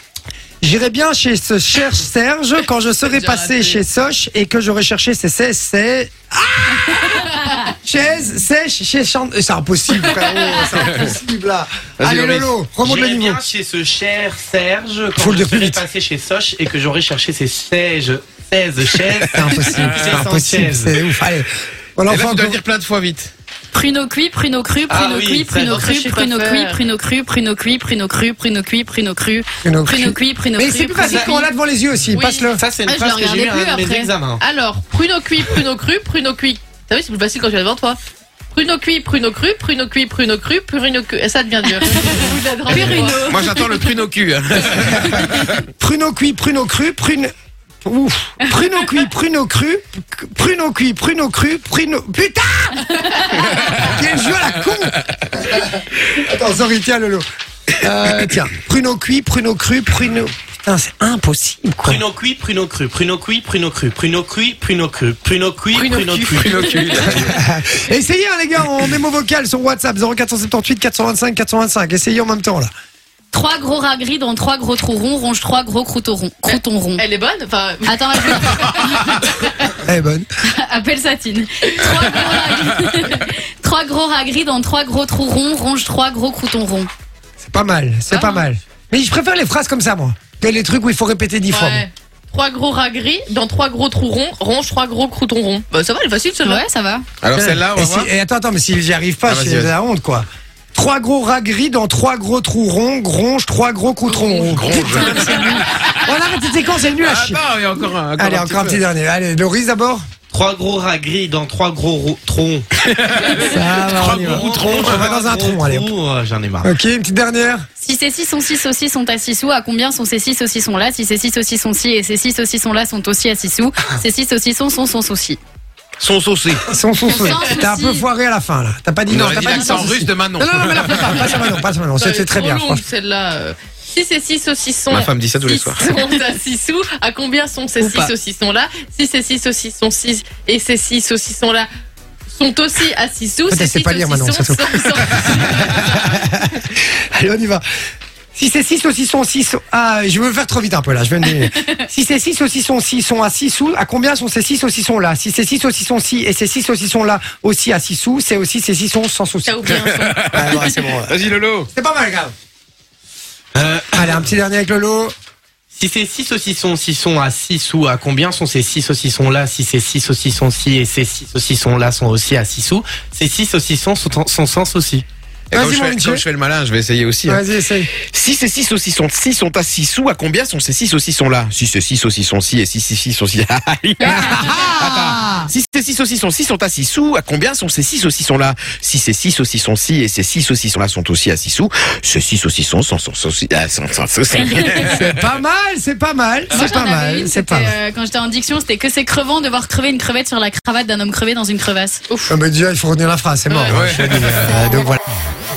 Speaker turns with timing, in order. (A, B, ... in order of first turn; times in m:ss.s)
0:00.6-0:13.4 A
0:03.0-0:03.8 B
0:10.1-0:10.7 B
0:12.0-0:12.6 C
0:12.8-0:20.9 D
0:15.2-0:15.8 A
0:19.3-0:22.6 A
0:22.1-0:23.3 C
0:23.7-0:31.5 E
0:24.9-0:26.0 D
0:25.0-0:26.9 B
0:29.6-0:32.6 A
0:31.0-0:31.3 D
0:32.1-0:38.0 B
0:32.6-0:34.4 D
0:33.1-0:34.0 E
0:38.5-0:43.8 B
0:41.7-0:43.9 E
0:42.8-0:45.6 C
0:45.0-0:47.3 A
0:47.8-0:57.2 A
0:57.8-1:02.0 A
1:01.8-1:06.7 D
1:05.7-1:07.1 B
1:06.3-1:07.4 C
1:06.7-1:12.7 A
1:13.3-1:17.0 E
1:16.4-1:19.5 B
1:17.8-1:19.1 E
1:19.8-1:20.3 A
1:20.4-1:26.9 E
1:21.7-1:22.5 B
1:27.4-1:31.9 A
1:28.1-1:28.5 B
1:31.5-1:36.7 B
1:36.4-1:37.1 E
1:37.2-1:38.1 C
1:37.7-1:47.4 A
1:39.2-1:39.8 C
1:44.1-1:44.9 B
1:44.5-1:48.8 C
1:48.2-1:50.1 A
1:50.3-1:52.7 D
1:52.8-1:55.1 C
1:53.4-1:55.9 A
1:54.1-1:56.7 D
1:56.6-1:57.7 A
1:57.8-2:05.4 E
2:06.0-2:06.7 C
2:06.7-2:12.8 A
2:07.1-2:08.1 E
2:07.3-2:07.6 B
2:09.1-2:11.4 C
2:09.5-2:09.9 E
2:12.0-2:21.7 B
2:14.9-2:15.8 C
2:17.8-2:18.1 A
2:22.3-2:26.2 B
2:23.5-2:27.6 A
2:28.3-2:39.6 A
2:39.4-2:40.9 B
2:39.7-2:41.7 C
2:40.3-2:41.1 A
2:41.7-2:42.3 A
2:43.6-2:44.2 D
2:43.9-2:45.1 A
2:45.7-2:55.0 D
2:55.5-3:15.3 C
2:55.5-2:56.2 A
2:57.3-2:57.9 A
3:04.0-3:05.5 A
3:14.8-3:17.8 A
3:16.5-3:22.0 E
3:22.1-3:22.4 B
3:22.3-3:25.0 A
3:23.5-3:23.9 B
3:23.7-3:24.6 C